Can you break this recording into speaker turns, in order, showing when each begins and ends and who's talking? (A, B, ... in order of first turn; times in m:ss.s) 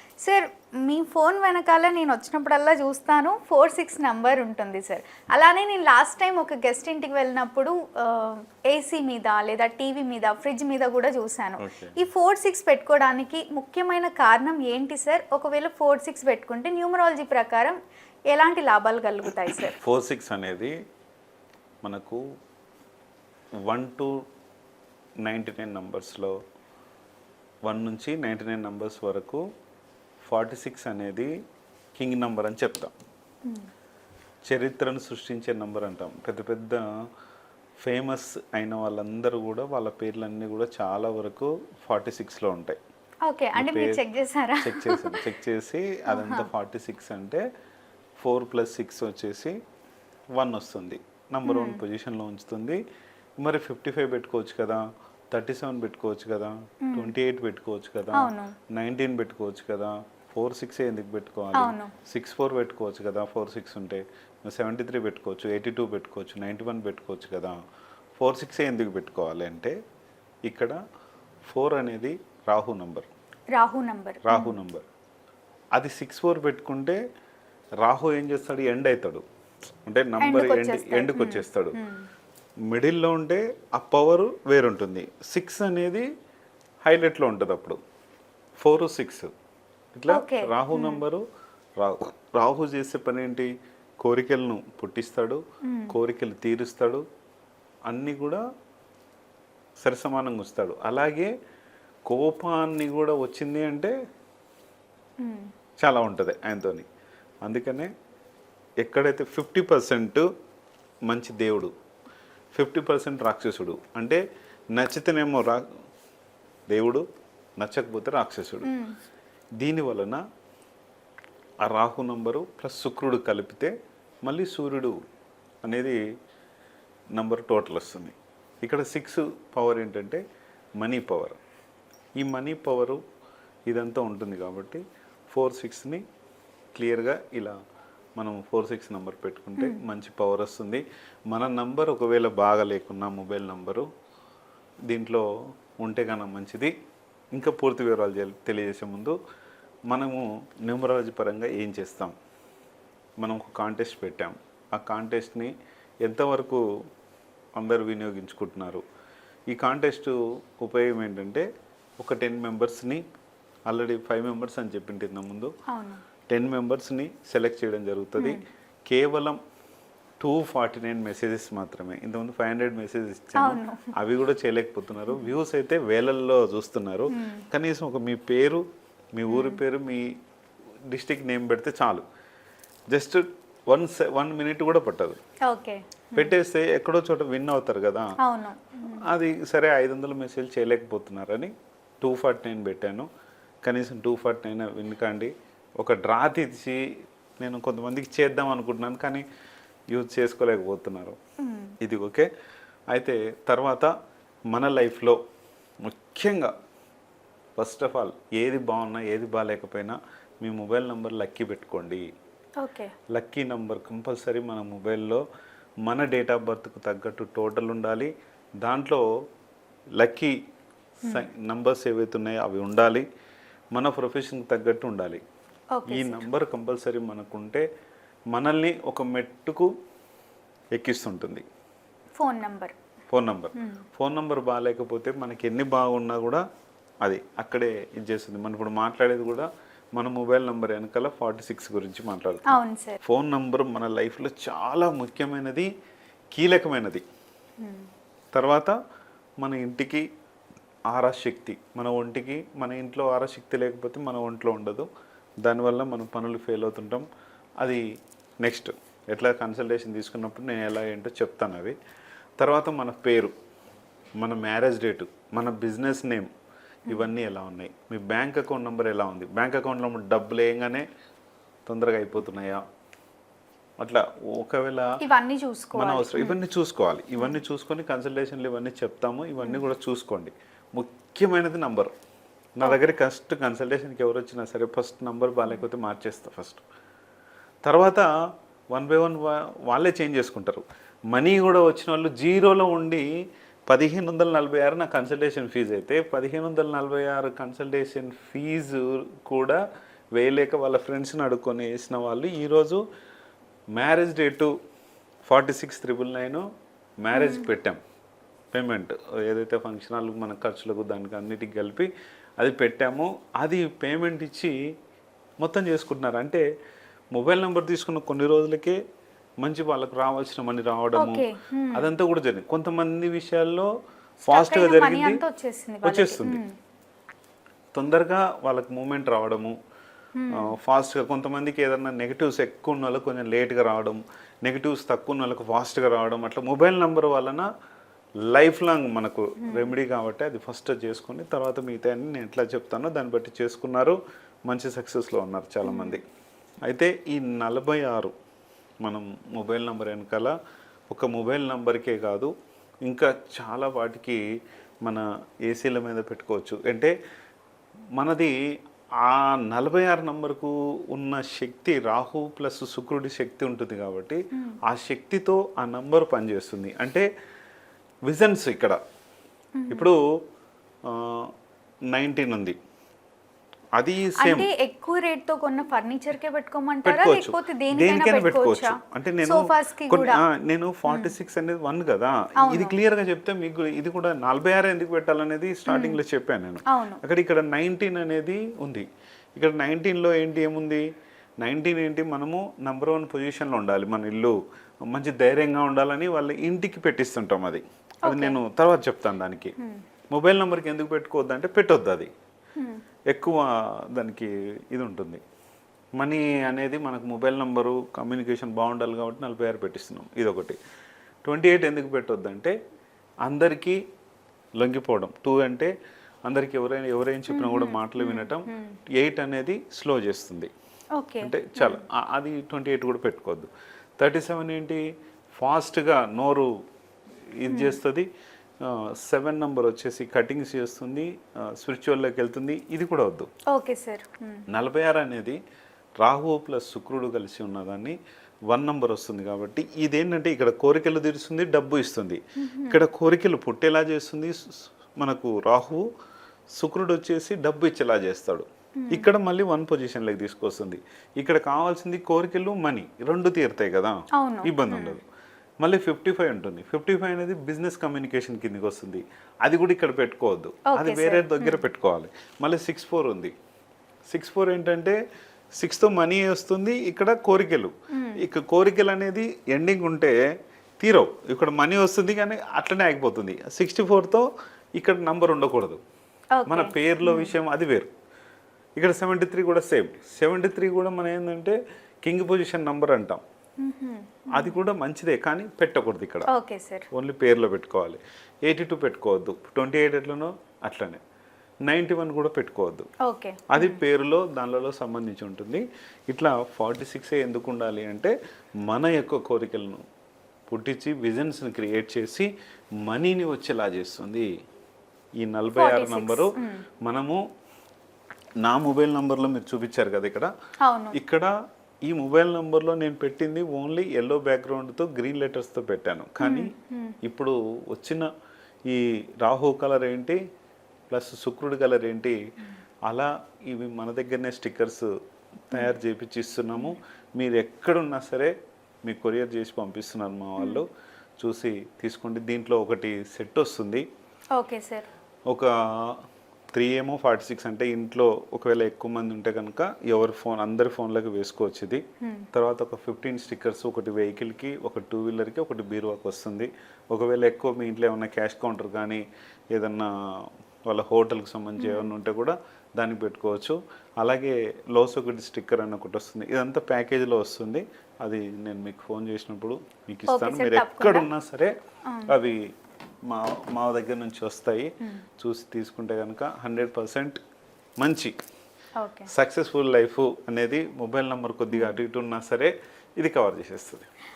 0:00.2-0:17.8 A
0:11.6-0:12.0 B
0:18.3-0:19.8 A
0:19.8-0:20.7 B
0:21.8-0:22.2 B
0:23.6-0:24.2 B
0:25.2-0:26.3 B
0:27.6-0:29.4 B
0:30.2-0:31.3 B
0:32.0-0:32.9 B
0:34.4-0:36.8 B
0:37.8-0:42.8 B
0:43.2-0:45.2 A
0:43.5-0:44.0 B
0:44.6-0:47.4 B
0:46.1-0:46.5 A
0:48.2-0:49.6 B
0:50.4-0:52.8 B
0:51.5-0:51.8 A
0:53.4-1:07.5 B
0:56.8-0:57.1 A
0:58.1-0:58.5 A
1:01.5-1:01.9 A
1:08.2-1:09.8 B
1:10.4-1:10.8 B
1:11.4-1:13.1 B
1:13.5-1:14.5 A
1:14.2-1:14.8 B
1:15.7-1:17.0 B
1:17.8-1:19.2 B
1:19.8-1:21.8 B
1:20.2-1:22.0 A
1:22.7-1:26.1 B
1:26.8-1:27.8 B
1:28.6-1:29.3 B
1:29.9-1:31.2 B
1:30.1-1:31.0 A
1:31.8-1:33.5 B
1:34.0-1:37.0 B
1:35.6-1:35.9 A
1:37.9-1:38.4 B
1:39.8-1:41.3 B
1:42.0-1:43.9 B
1:45.2-1:45.5 A
1:45.8-1:46.8 B
1:47.4-1:47.9 B
1:48.8-1:50.2 B
1:51.1-1:51.7 B
1:52.5-1:54.2 B
1:54.7-1:55.6 B
1:56.7-1:57.0 B
1:57.6-1:58.7 B
1:58.6-1:58.9 A
1:59.6-2:00.2 B
2:01.6-2:03.7 B
2:04.2-2:05.0 B
2:05.6-2:06.0 B
2:07.2-2:10.2 B
2:10.8-2:11.4 B
2:12.2-2:13.0 B
2:13.7-2:16.0 B
2:16.7-2:17.6 B
2:18.2-2:23.9 B
2:24.9-2:25.2 B
2:25.8-2:26.7 B
2:27.3-2:29.2 B
2:29.9-2:32.1 B
2:33.2-2:35.5 B
2:36.0-2:36.6 B
2:37.6-2:38.8 B
2:39.5-2:41.4 B
2:42.0-2:43.0 B
2:43.7-2:45.5 B
2:45.7-2:46.0 A
2:46.3-2:49.4 B
2:50.2-3:00.1 B
2:53.4-2:53.9 A
2:57.1-2:57.4 A
2:59.3-2:59.6 A
3:00.9-3:02.0 B
3:02.9-3:05.2 B
3:05.5-3:06.3 A
3:06.2-3:08.1 B
3:08.2-3:09.0 A
3:09.0-3:13.1 B
3:13.6-3:16.8 B
3:17.4-3:19.2 B
3:19.9-3:21.2 B
3:21.4-3:21.8 A
3:21.8-3:22.3 B
3:22.9-3:23.9 B
3:24.5-3:25.2 B
3:25.8-3:26.5 B
3:27.6-3:32.0 B
3:32.6-3:32.9 A
3:33.1-3:35.2 B
3:35.8-3:38.1 B
3:38.6-3:39.0 B
3:40.0-3:40.3 B
3:41.0-3:43.0 B
3:43.7-3:45.2 B
3:45.8-3:46.3 A
3:45.9-3:47.6 B
3:48.3-3:49.7 B
3:50.8-3:51.4 B
3:52.2-3:52.7 A
3:53.1-3:56.4 B
3:53.6-3:53.8 A
3:57.0-4:05.7 B
4:02.5-4:03.0 A
4:06.3-4:07.0 B
4:07.6-4:07.9 A
4:08.3-4:08.7 B
4:09.4-4:10.0 B
4:10.9-4:14.9 B
4:15.4-4:17.0 B
4:18.4-4:21.8 B
4:22.4-4:23.3 B
4:24.2-4:26.3 B
4:26.9-4:30.8 B
4:31.6-4:32.6 B
4:33.8-4:34.9 B
4:35.0-4:36.4 A
4:35.7-4:41.9 B
4:42.6-4:46.6 B
4:47.6-4:48.1 B
4:48.7-4:53.0 B
4:53.7-4:59.6 B
5:00.2-5:02.8 B
5:03.8-5:04.5 B
5:05.2-5:06.4 B
5:07.0-5:07.8 B
5:07.1-5:07.4 A
5:08.5-5:11.9 B
5:12.4-5:14.5 B
5:15.4-5:16.4 B
5:17.1-5:18.8 B
5:19.4-5:23.7 B
5:21.0-5:21.9 A
5:24.2-5:26.5 A
5:24.3-5:25.2 B
5:25.8-5:26.4 B
5:27.7-5:29.5 B
5:30.2-5:30.5 A
5:30.3-5:37.5 B
5:38.2-5:46.0 B
5:39.4-5:39.7 A
5:45.6-5:46.0 A
5:46.7-5:48.1 B
5:48.8-5:50.3 B
5:50.9-5:52.3 B
5:52.8-5:54.2 B
5:54.8-5:56.9 B
5:58.0-5:58.4 B
5:59.0-6:07.1 B
6:08.1-6:08.8 B
6:09.6-6:09.9 A
6:09.7-6:10.0 B
6:10.8-6:11.3 B
6:11.9-6:12.6 B
6:13.8-6:14.5 B
6:14.2-6:20.2 A
6:16.8-6:28.8 B
6:20.9-6:21.1 A
6:22.4-6:22.8 A
6:25.7-6:26.0 A
6:26.7-6:27.0 A
6:29.4-6:30.8 B
6:31.4-6:39.5 B
6:38.0-6:38.4 A
6:40.1-6:42.1 B
6:43.1-6:45.2 B
6:45.9-6:50.6 B
6:51.2-6:52.5 B
6:53.2-6:53.8 B
6:54.6-6:55.7 B
6:56.2-7:00.5 B
6:57.3-6:58.8 A
7:01.0-7:01.8 A
7:01.2-7:03.5 B
7:04.0-7:04.8 B
7:05.3-7:06.5 B
7:07.4-7:08.1 B
7:07.5-7:07.8 A
7:08.6-7:13.3 B
7:13.5-7:14.4 A
7:14.5-7:15.4 B
7:16.0-7:18.0 B
7:18.5-7:25.8 B
7:22.4-7:22.8 A
7:26.6-7:35.0 B
7:28.8-7:29.1 A
7:34.2-7:35.0 A
7:35.6-7:43.3 B
7:40.7-7:41.6 A
7:44.1-7:45.0 B
7:45.6-7:50.2 B
7:47.9-7:48.2 A
7:50.8-7:55.8 B
7:56.4-7:57.3 A
7:56.5-7:57.9 B
7:58.8-8:03.2 B
8:03.6-8:04.6 A
8:04.3-8:06.3 B
8:06.3-8:06.9 A
8:06.9-8:11.0 B
8:11.6-8:12.9 B
8:13.0-8:13.8 A
8:13.5-8:18.1 B
8:18.7-8:19.8 B
8:20.5-8:22.3 B
8:22.8-8:24.3 B
8:25.2-8:26.3 B
8:25.5-8:26.6 A
8:26.8-8:27.2 B
8:28.4-8:30.3 B
8:30.6-8:31.0 A
8:30.9-8:31.3 B
8:31.9-8:36.5 B
8:36.2-8:37.0 A
8:37.0-8:38.1 B
8:38.7-8:40.2 B
8:40.9-8:42.2 B
8:42.9-8:44.9 B
8:45.5-8:50.7 B
8:51.2-8:53.8 B
8:54.3-8:54.9 A
8:55.3-8:56.0 B
8:56.5-9:09.0 B
9:02.0-9:02.3 A
9:09.5-9:21.5 B
9:11.6-9:11.9 A
9:20.1-9:21.1 A
9:21.9-9:22.1 A
9:22.1-9:22.4 B
9:23.0-9:27.2 B
9:27.8-9:28.1 B
9:28.8-9:29.1 A
9:29.1-9:33.8 B
9:31.5-9:31.8 A